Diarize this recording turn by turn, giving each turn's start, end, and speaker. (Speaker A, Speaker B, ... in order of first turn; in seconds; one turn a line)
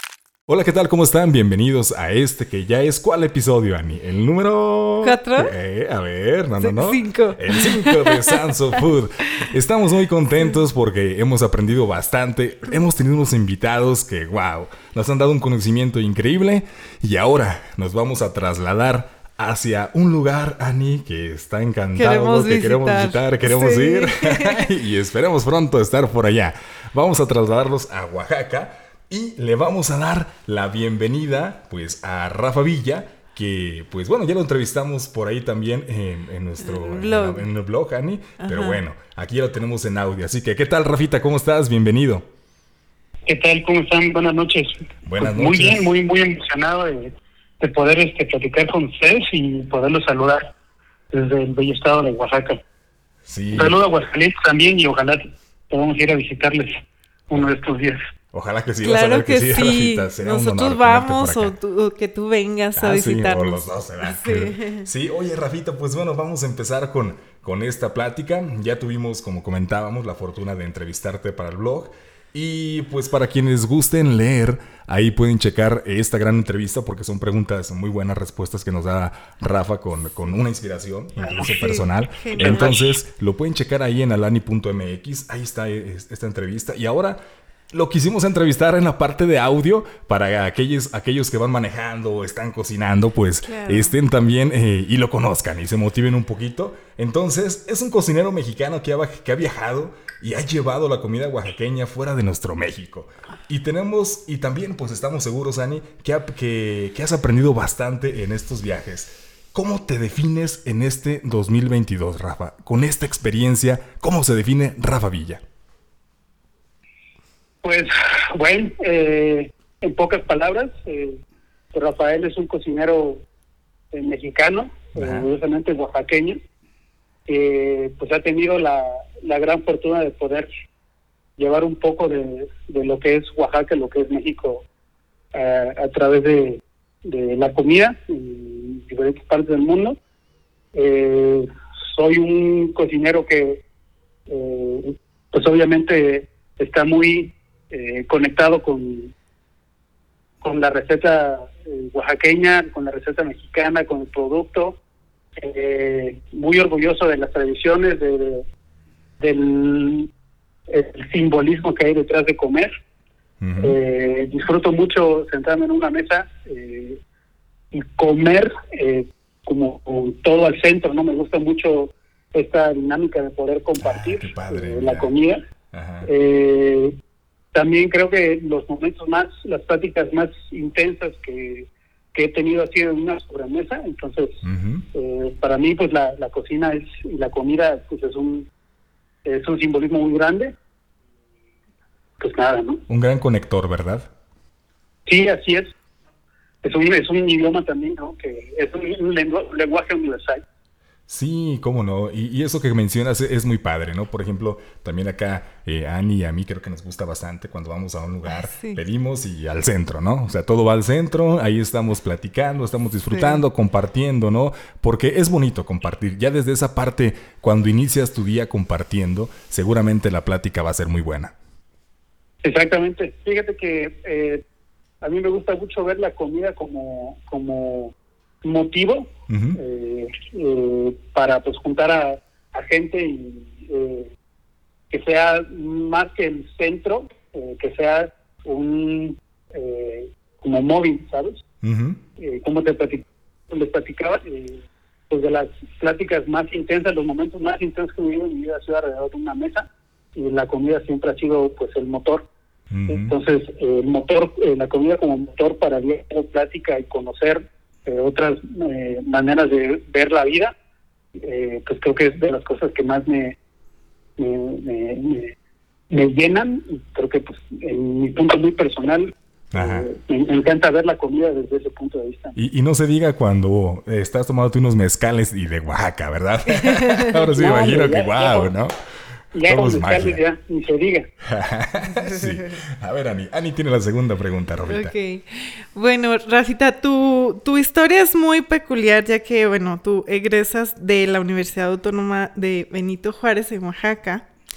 Speaker A: 0.5-42.3
Speaker B: 5.0-5.5
Speaker B: 6.6-8.8
Speaker B: 21.9-24.7
Speaker B: 36.6-37.5
Speaker B: 38.4-38.8
Speaker C: 43.3-50.5
Speaker A: 45.0-45.9
Speaker C: 51.1-52.6
Speaker A: 53.3-53.8
Speaker C: 53.5-58.0
Speaker A: 58.3-61.5
Speaker B: 58.8-64.9
Speaker A: 62.8-87.2
Speaker B: 81.3-82.8
Speaker C: 82.4-82.8
Speaker A: 87.7-115.4
Speaker B: 93.5-93.9
Speaker C: 117.6-121.2
Speaker C: 121.7-123.2
Speaker C: 123.9-126.4
Speaker A: 125.0-125.3
Speaker C: 127.3-130.5
Speaker C: 131.4-134.7
Speaker C: 135.3-140.0
Speaker C: 140.7-143.6
Speaker C: 144.3-149.1
Speaker C: 150.4-154.8
Speaker C: 155.4-158.4
Speaker C: 159.2-160.1
Speaker C: 160.7-162.7
Speaker A: 163.4-163.8
Speaker C: 163.6-167.0
Speaker C: 167.7-175.4
Speaker A: 173.8-175.1
Speaker A: 175.7-176.1
Speaker C: 176.0-177.0
Speaker C: 177.5-184.4
Speaker A: 184.4-184.9
Speaker C: 184.9-188.5
Speaker C: 189.2-190.6
Speaker C: 192.2-192.8
Speaker A: 192.9-194.1
Speaker C: 195.1-195.7
Speaker C: 196.6-200.4
Speaker A: 201.1-221.3
Speaker B: 208.3-208.8
Speaker B: 213.1-213.4
Speaker C: 222.4-224.4
Speaker C: 225.0-234.1
Speaker A: 229.3-229.6
Speaker C: 234.9-241.4
Speaker A: 241.6-242.0
Speaker C: 242.2-252.3
Speaker A: 252.7-253.2
Speaker C: 252.9-260.6
Speaker C: 261.2-263.4
Speaker C: 264.2-265.4
Speaker C: 265.9-272.4
Speaker A: 269.5-269.9
Speaker A: 272.4-280.2
Speaker B: 276.5-277.2
Speaker C: 277.3-278.5
Speaker C: 279.4-281.1
Speaker A: 281.2-284.9
Speaker B: 281.9-282.5
Speaker B: 284.7-294.3